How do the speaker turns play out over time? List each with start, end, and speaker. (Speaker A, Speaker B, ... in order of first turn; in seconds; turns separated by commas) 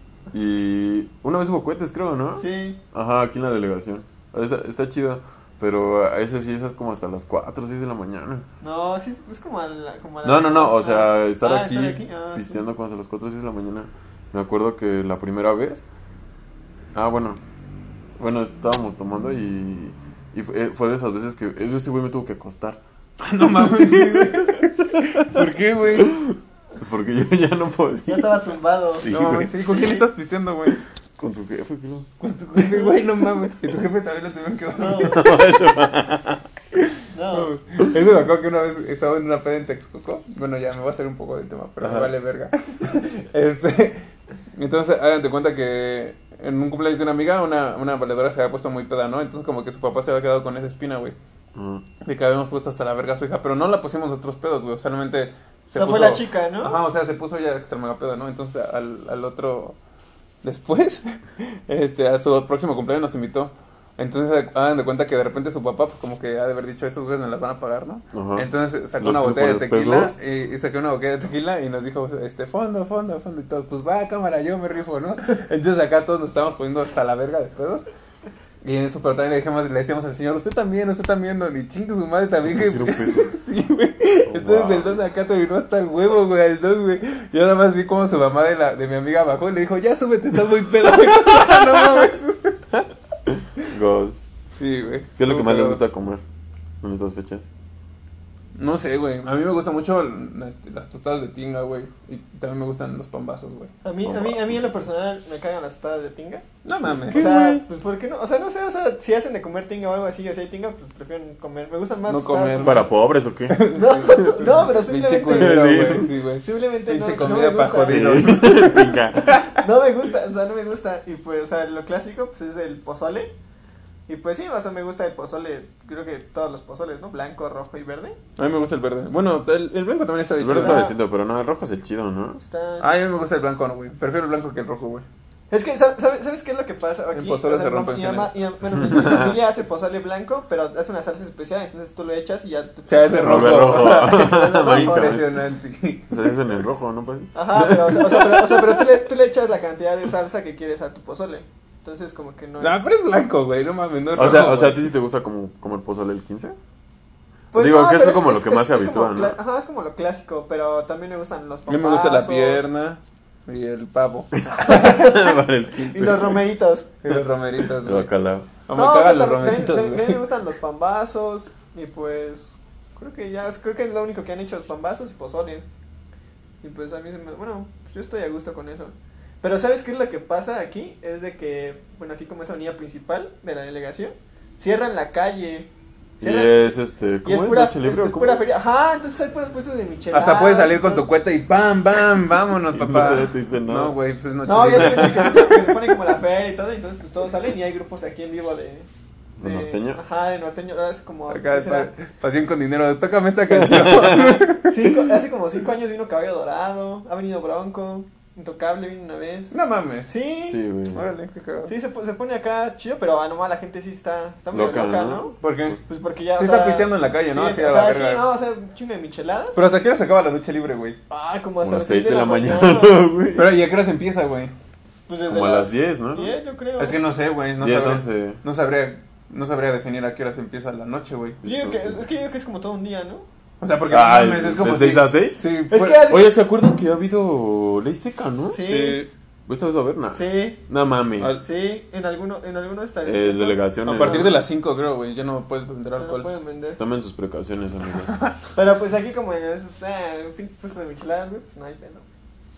Speaker A: 0.3-8.4, Speaker B: 2.4-2.8, Speaker B: 8.6-12.6, Speaker A: 10.2-15.8, Speaker A: 16.9-17.4, Speaker A: 18.2-22.8, Speaker C: 23.2-26.1, Speaker A: 23.4-28.4, Speaker B: 28.1-29.1, Speaker A: 28.9-29.5, Speaker C: 29.1-30.8, Speaker B: 29.6-30.0, Speaker A: 31.2-32.9, Speaker C: 32.2-35.3, Speaker B: 34.8-35.4, Speaker A: 35.0-36.4, Speaker B: 37.1-37.5, Speaker C: 37.3-51.1, Speaker A: 41.8-42.1, Speaker A: 51.5-51.8, Speaker C: 52.0-59.8, Speaker B: 55.7-56.8, Speaker C: 60.4-77.9, Speaker A: 68.1-68.5, Speaker A: 69.0-70.1, Speaker C: 78.6-92.6, Speaker A: 82.4-83.3, Speaker A: 84.3-85.0, Speaker A: 93.3-94.3, Speaker C: 94.5-95.8, Speaker A: 95.2-96.2, Speaker A: 96.8-97.5, Speaker C: 98.5-103.7, Speaker B: 103.8-106.4, Speaker A: 104.0-104.7, Speaker C: 106.6-107.3, Speaker A: 106.8-107.6, Speaker B: 107.1-112.8, Speaker C: 112.1-112.9, Speaker A: 112.6-114.4, Speaker C: 113.5-119.5, Speaker B: 113.7-118.4, Speaker A: 115.3-116.1, Speaker A: 117.8-119.5, Speaker B: 119.6-123.3, Speaker B: 124.1-128.2, Speaker C: 128.4-130.9, Speaker A: 130.4-132.4, Speaker B: 130.6-130.9, Speaker B: 132.4-132.9, Speaker C: 132.8-135.1, Speaker B: 135.5-145.2, Speaker C: 137.1-138.4, Speaker C: 138.9-139.2, Speaker A: 138.9-139.2, Speaker C: 142.8-146.4, Speaker A: 143.2-145.3, Speaker A: 146.1-148.8, Speaker B: 147.3-152.9, Speaker C: 152.6-154.8, Speaker A: 154.2-156.6, Speaker B: 157.5-162.6, Speaker A: 157.5-159.4, Speaker C: 161.7-165.0, Speaker A: 164.3-166.4, Speaker B: 164.6-165.3, Speaker B: 165.9-166.9, Speaker C: 167.0-168.1, Speaker A: 167.1-168.5, Speaker C: 168.7-170.3, Speaker B: 168.7-175.7, Speaker B: 176.6-185.7, Speaker A: 186.2-188.4, Speaker B: 186.2-186.7, Speaker B: 187.2-191.1, Speaker C: 190.1-195.8, Speaker A: 192.7-193.9, Speaker B: 194.4-198.9, Speaker A: 199.4-200.0, Speaker B: 199.4-201.9, Speaker C: 201.3-204.7, Speaker A: 203.7-204.4, Speaker B: 204.6-210.6, Speaker C: 209.5-210.1, Speaker A: 210.4-211.1, Speaker C: 210.9-211.7, Speaker B: 211.7-215.3, Speaker A: 214.5-215.8, Speaker C: 215.4-215.8, Speaker B: 215.8-219.6, Speaker C: 216.3-218.3, Speaker C: 219.5-221.0, Speaker B: 221.1-223.1, Speaker A: 221.6-223.5, Speaker C: 223.3-224.5, Speaker B: 225.1-227.0, Speaker A: 225.3-226.3, Speaker C: 226.8-231.4, Speaker A: 227.6-228.4, Speaker A: 231.4-232.0, Speaker B: 231.4-233.3, Speaker C: 233.6-236.0, Speaker A: 233.9-235.4, Speaker B: 235.7-236.3, Speaker A: 236.0-238.6, Speaker B: 238.5-239.1, Speaker C: 238.6-239.1, Speaker A: 239.5-241.4, Speaker B: 240.1-240.6, Speaker B: 241.4-244.4, Speaker A: 243.0-244.3, Speaker C: 243.8-246.4, Speaker B: 246.0-246.8, Speaker A: 246.8-248.2, Speaker C: 248.1-248.3, Speaker B: 248.5-252.1